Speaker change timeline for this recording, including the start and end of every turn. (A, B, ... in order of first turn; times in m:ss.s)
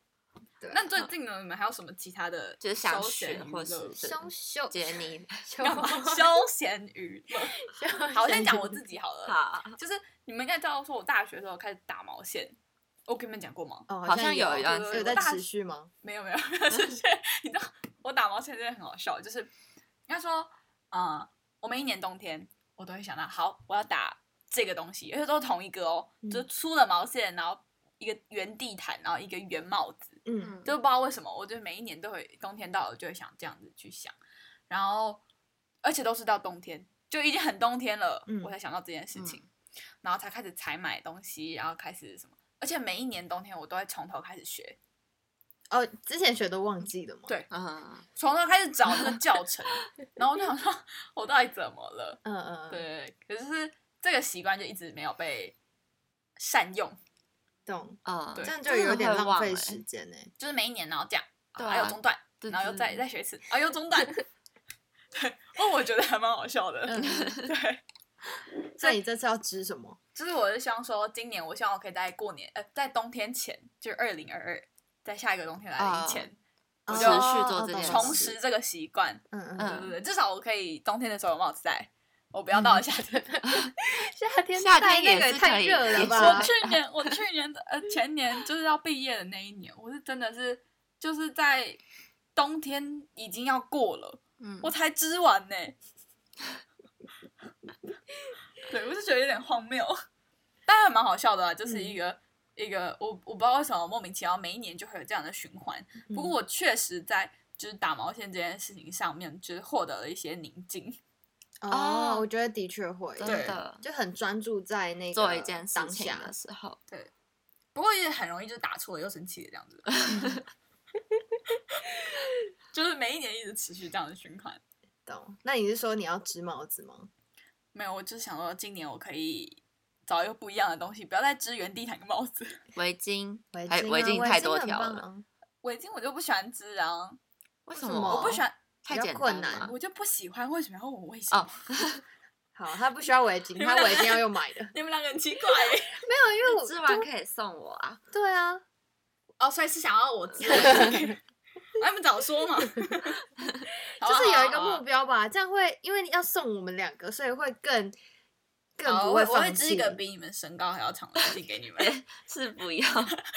0:00.6-0:00.9 A
0:00.7-0:04.0 B
0:02.6-0:05.5 C
0:04.0-0:06.3 A
0:05.6-0:07.6 B
0:07.7-0:08.8 A
0:08.1-0:13.9 B
0:09.2-0:09.8 C
0:13.9-0:15.9 A
0:14.0-0:15.2 C
0:14.6-0:15.5 B
0:16.0-0:19.5 B
0:20.1-0:34.2 B
0:30.3-0:30.6 A
0:30.4-0:30.7 C
0:34.7-0:35.2 B
0:35.8-0:39.4 B
0:38.3-0:38.5 A
0:39.2-0:39.4 C
0:40.0-0:44.8 B
0:45.7-0:47.4 A
0:47.5-0:48.1 C
0:48.2-0:55.6 B
0:52.2-0:52.8 A
0:56.4-0:57.0 B
0:57.7-1:00.3 A
0:58.0-0:59.8 C
1:00.4-1:04.2 B
1:01.6-1:03.0 C
1:05.1-1:07.8 B
1:06.9-1:07.3 A
1:07.0-1:07.5 C
1:08.8-1:10.0 A
1:10.2-1:16.4 B
1:15.8-1:16.3 C
1:16.9-1:18.3 A
1:16.9-1:18.4 C
1:16.9-1:23.5 B
1:19.3-1:19.8 A
1:19.6-1:19.9 C
1:22.6-1:22.8 A
1:23.4-1:26.5 A
1:24.6-1:26.8 C
1:26.0-1:31.8 B
1:32.4-1:35.8 B
1:34.4-1:34.7 C
1:38.6-1:40.0 B
1:40.7-1:51.0 B
1:41.7-1:42.0 A
1:46.1-1:46.4 A
1:51.6-1:56.3 A
1:51.7-1:52.3 C
1:53.2-1:53.8 C
1:53.2-1:53.6 B
1:55.1-1:56.8 C
1:57.8-2:00.1 B
2:00.1-2:00.4 A
2:02.7-2:04.6 B
2:05.1-2:07.1 A
2:07.7-2:12.6 B
2:12.8-2:15.0 C
2:13.5-2:15.2 A
2:15.6-2:17.2 B
2:17.7-2:19.7 C
2:17.8-2:19.7 A
2:18.1-2:18.6 B
2:19.6-2:21.6 B
2:21.3-2:22.0 C
2:22.6-2:24.7 A
2:23.6-2:26.0 B
2:26.0-2:27.1 A
2:26.4-2:28.0 C
2:28.1-2:28.6 A
2:29.4-2:31.2 B
2:30.5-2:31.0 A
2:31.8-2:33.2 B
2:34.0-2:38.0 A
2:34.0-2:34.8 B
2:38.8-2:40.0 A
2:38.8-2:41.9 B
2:41.8-2:43.2 C